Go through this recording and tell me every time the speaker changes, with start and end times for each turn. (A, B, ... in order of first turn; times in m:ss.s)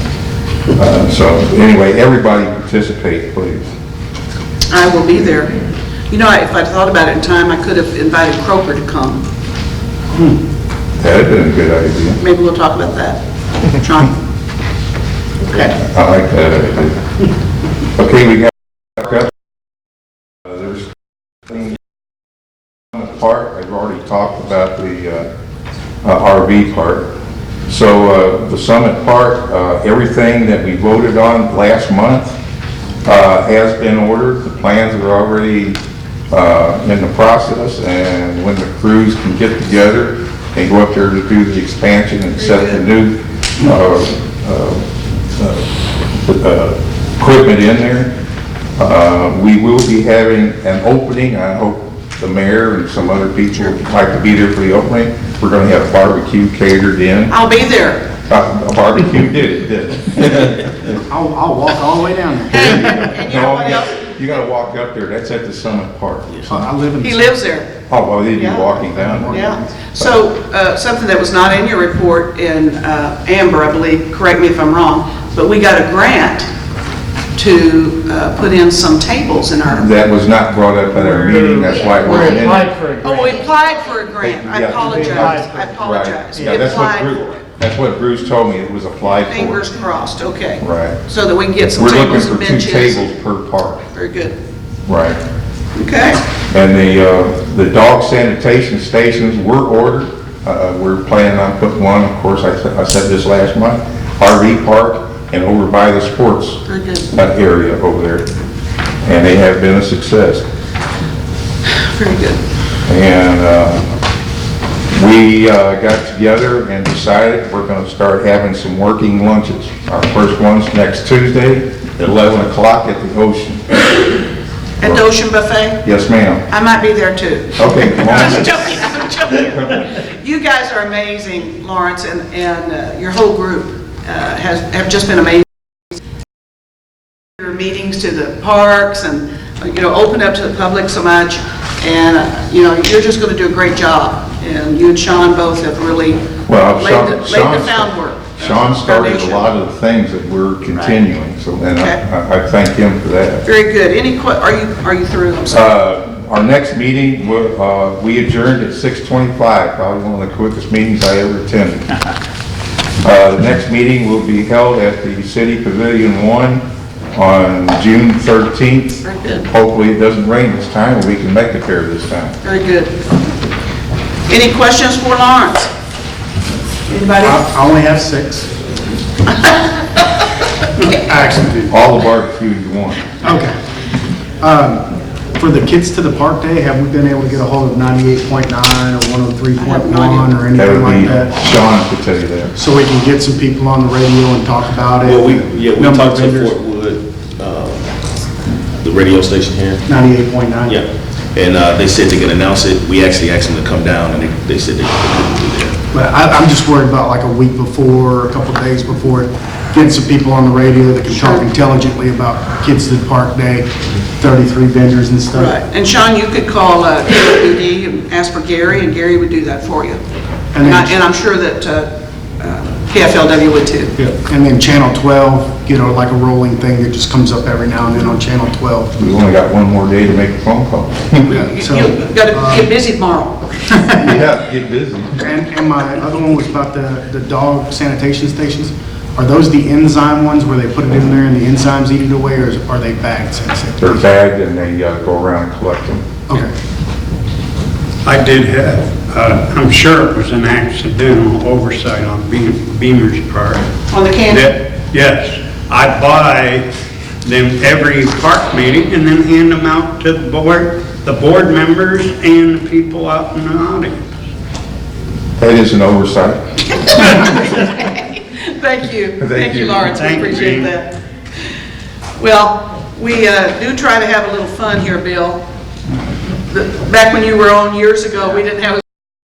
0:00.7-0:03.7 A
0:04.7-0:05.6 B
0:06.1-0:09.2 B
0:11.0-0:12.2 A
0:12.2-0:13.2 B
0:13.7-0:14.2 B
0:15.4-0:15.8 B
0:15.8-0:17.0 A
0:18.0-0:19.3 A
0:20.5-0:20.9 A
0:21.5-0:21.8 A
0:22.9-0:25.3 A
0:26.0-0:27.1 A
0:27.7-0:32.4 A
0:33.0-0:35.8 A
0:36.3-0:48.1 A
0:42.4-0:42.9 B
0:48.8-0:57.3 A
0:57.3-0:58.1 B
0:58.3-1:01.0 A
1:00.9-1:03.1 C
1:02.5-1:04.1 B
1:02.5-1:06.5 A
1:06.5-1:07.4 C
1:07.0-1:07.8 B
1:07.9-1:09.4 A
1:08.3-1:16.5 B
1:08.9-1:09.8 C
1:17.4-1:19.9 B
1:19.7-1:22.7 A
1:21.0-1:23.3 D
1:21.9-1:22.4 B
1:23.0-1:27.5 B
1:24.2-1:29.7 A
1:24.9-1:25.5 D
1:29.2-1:33.1 B
1:30.6-1:31.0 A
1:31.6-1:33.9 A
1:33.9-1:34.4 B
1:34.9-1:35.2 A
1:35.7-1:36.3 B
1:36.5-1:48.3 A
1:46.7-1:47.1 B
1:49.0-1:50.4 A
1:51.6-1:52.4 B
1:52.9-1:53.9 A
1:54.9-2:03.9 A
2:04.8-2:05.8 B
2:05.8-2:06.5 A
2:06.5-2:15.5 B
2:07.6-2:08.9 A
2:17.4-2:29.5 B
2:26.5-2:33.4 A
2:30.7-2:31.0 B
2:33.4-2:35.7 B
2:35.5-2:41.8 A
2:43.0-2:52.4 A
2:49.0-2:49.5 B
2:52.4-2:53.0 B
2:54.3-2:55.7 B
2:56.9-2:57.4 B
2:57.2-2:58.5 C
2:59.4-2:59.9 B
3:00.8-3:01.7 C
3:01.7-3:03.1 A
3:03.2-3:03.6 C
3:04.4-3:11.4 C
3:09.6-3:10.3 B
3:10.6-3:12.6 A
3:12.6-3:16.6 C
3:15.0-3:17.9 E
3:18.8-3:19.9 E
3:19.9-3:20.8 C
3:20.7-3:25.8 E
3:25.9-3:33.7 C
3:31.1-3:31.5 B
3:34.2-3:35.5 C
3:35.3-3:40.0 B
3:40.5-3:41.0 C
3:40.6-3:43.9 B
3:44.0-3:49.0 C
3:49.0-3:51.3 A
3:51.3-3:53.6 B
3:51.3-3:52.7 C
3:53.9-3:54.1 C
3:54.0-3:55.3 A
3:55.2-4:04.0 C
4:03.8-4:06.0 A
4:08.0-4:13.7 D
4:13.9-4:14.5 B
4:14.3-4:16.7 D
4:17.2-4:24.1 D
4:25.4-4:27.2 A
4:27.1-4:31.0 B
4:29.2-4:30.0 A
4:29.8-4:30.7 D
4:32.2-4:35.4 B
4:36.5-4:38.9 B